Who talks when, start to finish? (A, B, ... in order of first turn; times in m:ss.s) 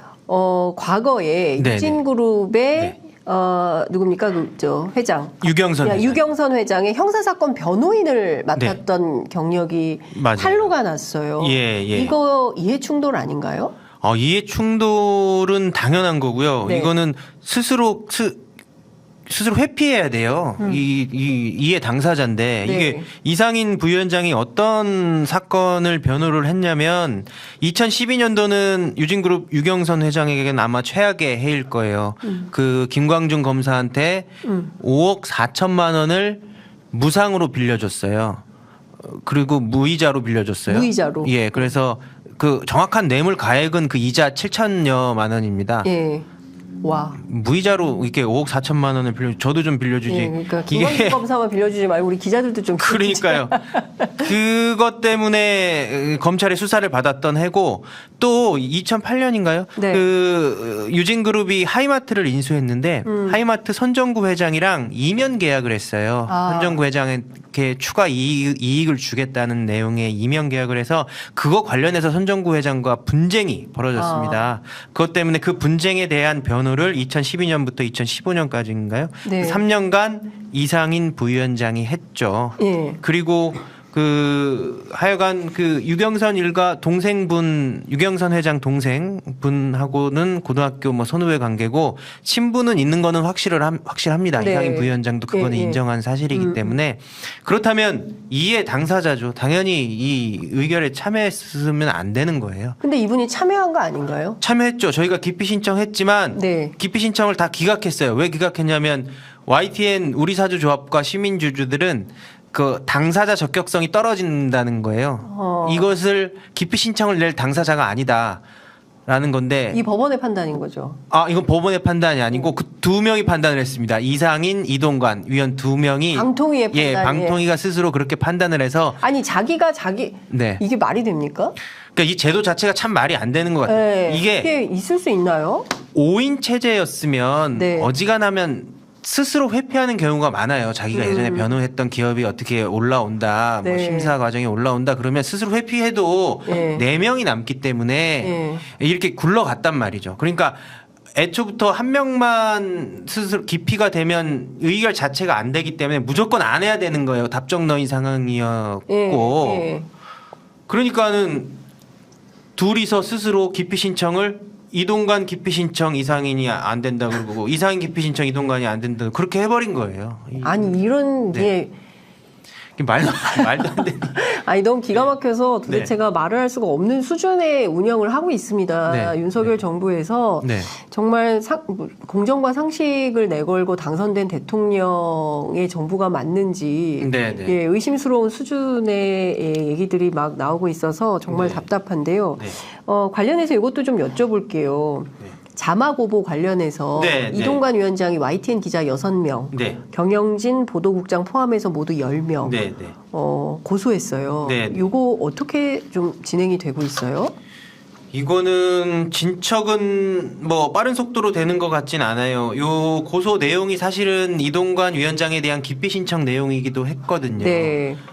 0:00.3-0:13.7 A
0:01.6-0:02.0 B
0:05.4-0:06.2 B
0:10.1-0:10.7 B
0:11.4-0:12.1 B
0:14.0-0:18.4 B
0:16.6-0:16.9 A
0:19.3-0:38.4 B
0:22.6-0:23.0 A
0:32.2-0:32.5 A
0:34.4-0:34.7 A
0:39.0-0:45.9 B
0:40.7-0:41.3 A
0:45.8-0:46.2 A
0:46.8-0:47.2 A
0:47.2-0:51.2 B
0:50.0-0:54.2 A
0:52.8-1:42.8 B
0:59.8-1:00.0 A
1:03.0-1:03.4 A
1:06.3-1:06.8 A
1:14.0-1:14.4 A
1:19.2-1:19.6 A
1:22.6-1:23.0 A
1:34.4-1:35.8 A
1:36.3-1:36.7 A
1:42.8-1:44.4 A
1:44.4-1:58.4 B
1:46.3-1:46.7 A
1:55.2-1:55.9 A
1:59.1-1:59.8 B
1:59.7-2:01.0 A
2:01.1-2:09.0 B
2:06.1-2:07.4 A
2:09.0-2:11.6 A
2:10.3-2:10.6 B
2:11.9-2:14.5 B
2:13.7-2:15.7 A
2:15.9-2:39.7 B
2:17.5-2:17.9 A
2:20.9-2:21.5 A
2:23.6-2:24.1 A
2:26.5-2:26.8 A
2:28.2-2:28.6 A
2:38.9-2:39.9 A
2:40.7-2:41.6 B
2:42.6-2:50.8 B
2:50.4-2:51.7 A
2:52.8-2:54.2 B
2:53.2-3:22.6 A
2:55.6-2:55.9 B
2:58.9-2:59.6 B
3:00.4-3:00.7 B
3:07.0-3:07.6 B
3:11.3-3:11.6 B
3:17.0-3:17.6 B
3:19.5-3:19.8 B
3:22.4-3:23.0 B
3:23.1-3:27.3 A
3:24.4-3:24.9 B
3:28.1-3:37.8 B
3:37.4-3:38.0 A